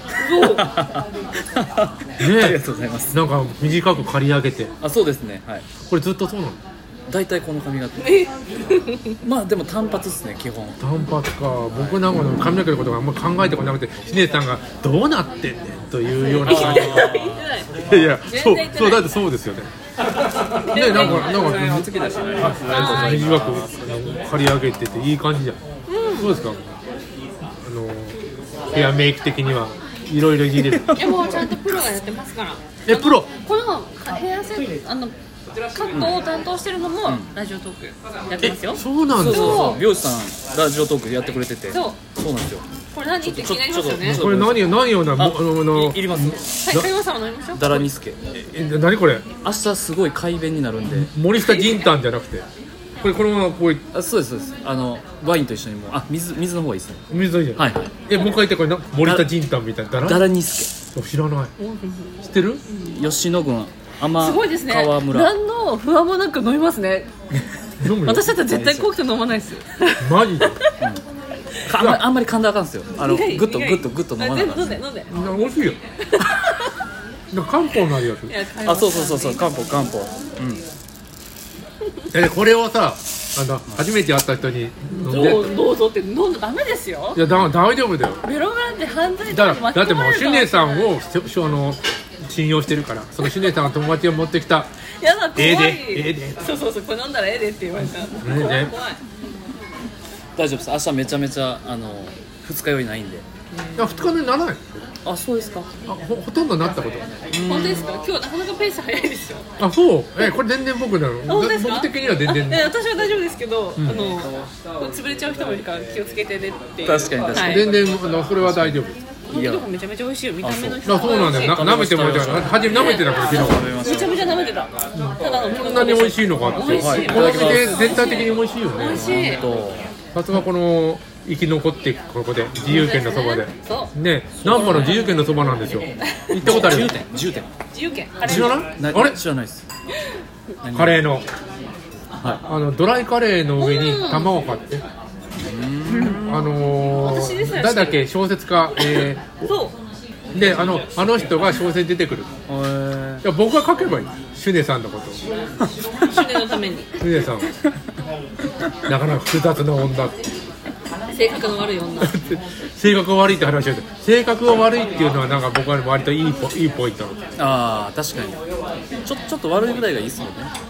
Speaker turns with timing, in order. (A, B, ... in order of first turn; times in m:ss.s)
0:00.2-0:00.7 A
0:00.4-0:03.2 B
0:02.2-0:02.6 C
0:03.1-0:04.7 C
0:04.8-0:05.7 B
0:05.9-0:06.6 C
0:07.1-0:08.2 B
0:08.0-0:09.2 A
0:09.2-0:10.8 B
0:10.8-0:17.2 C
0:11.7-0:12.0 B
0:16.3-0:17.7 A
0:16.4-0:17.5 B
0:17.8-0:19.7 C
0:18.2-0:19.1 A
0:20.5-0:21.9 A
0:20.7-0:24.2 B
0:20.7-0:25.6 C
0:22.7-0:23.3 A
0:25.9-0:26.4 A
0:26.2-0:26.8 C
0:27.6-0:28.2 C
0:28.7-0:29.0 A
0:28.7-0:31.2 C
0:30.6-0:31.2 B
0:31.0-0:35.1 A
0:32.9-0:33.3 C
0:35.8-0:39.8 A
0:35.9-0:36.2 B
0:38.4-0:39.8 C
0:39.1-0:42.6 B
0:41.7-0:42.0 A
0:42.9-0:44.2 A
0:43.2-0:46.4 B
0:44.0-0:46.9 C
0:46.6-0:47.9 A
0:47.6-0:48.2 B
0:48.3-0:49.3 C
0:49.4-0:51.1 B
0:50.9-0:52.4 C
0:51.4-0:51.9 A
0:53.0-0:53.8 C
0:53.9-0:57.0 B
0:57.1-1:00.3 C
0:57.6-0:57.9 B
0:59.0-0:59.3 B
1:00.0-1:00.7 B
1:00.9-1:01.5 C
1:01.6-1:02.1 A
1:02.2-1:02.6 C
1:02.8-1:05.3 B
1:04.2-1:07.1 A
1:07.8-1:08.4 C
1:08.0-1:10.7 A
1:08.4-1:08.9 B
1:10.0-1:10.6 C
1:11.7-1:14.8 B
1:11.8-1:12.0 C
1:13.0-1:15.1 A
1:15.1-1:15.8 C
1:16.1-1:16.7 A
1:17.3-1:18.3 C
1:18.3-1:19.4 A
1:18.6-1:20.6 B
1:22.1-1:25.5 C
1:25.0-1:27.2 A
1:27.2-1:28.2 C
1:28.2-1:30.9 A
1:29.3-1:34.7 C
1:33.2-1:33.5 A
1:35.0-1:39.0 A
1:35.4-1:36.4 C
1:38.2-1:38.7 C
1:40.4-1:43.3 B
1:43.5-1:44.0 A
1:43.8-1:44.8 C
1:45.0-1:45.7 B
1:45.9-1:47.1 C
1:47.3-1:47.9 B
1:47.4-1:49.5 A
1:49.6-1:52.7 C
1:51.3-1:57.7 A
1:53.8-1:54.1 C
1:56.8-1:57.9 B
1:57.4-1:59.0 C
1:58.4-1:58.8 B
1:59.3-2:09.4 A
1:59.3-1:59.7 B
2:00.4-2:04.2 B
2:00.8-2:03.7 C
2:04.9-2:09.1 C
2:06.7-2:08.2 B
2:08.8-2:09.9 B
2:10.1-2:17.0 C
2:12.7-2:13.9 A
2:14.4-2:15.0 B
2:14.4-2:15.0 A
2:16.3-2:16.7 A
2:16.3-2:17.5 B
2:17.7-2:18.7 A
2:18.2-2:19.2 C
2:18.2-2:19.6 B
2:20.6-2:21.0 B
2:20.7-2:21.2 C
2:22.4-2:24.8 C
2:23.6-2:24.3 A
2:25.4-2:26.4 B
2:25.9-2:28.1 A
2:26.1-2:29.4 C
2:28.8-2:29.8 A
2:30.3-2:32.3 C
2:32.5-2:33.2 B
2:33.2-2:35.2 C
2:36.0-2:37.0 A
2:36.1-2:36.4 B
2:37.0-2:37.5 C
2:38.8-2:40.3 C
2:41.1-2:42.2 A
2:42.0-2:47.2 C
2:47.4-2:48.4 B
2:49.0-2:50.5 B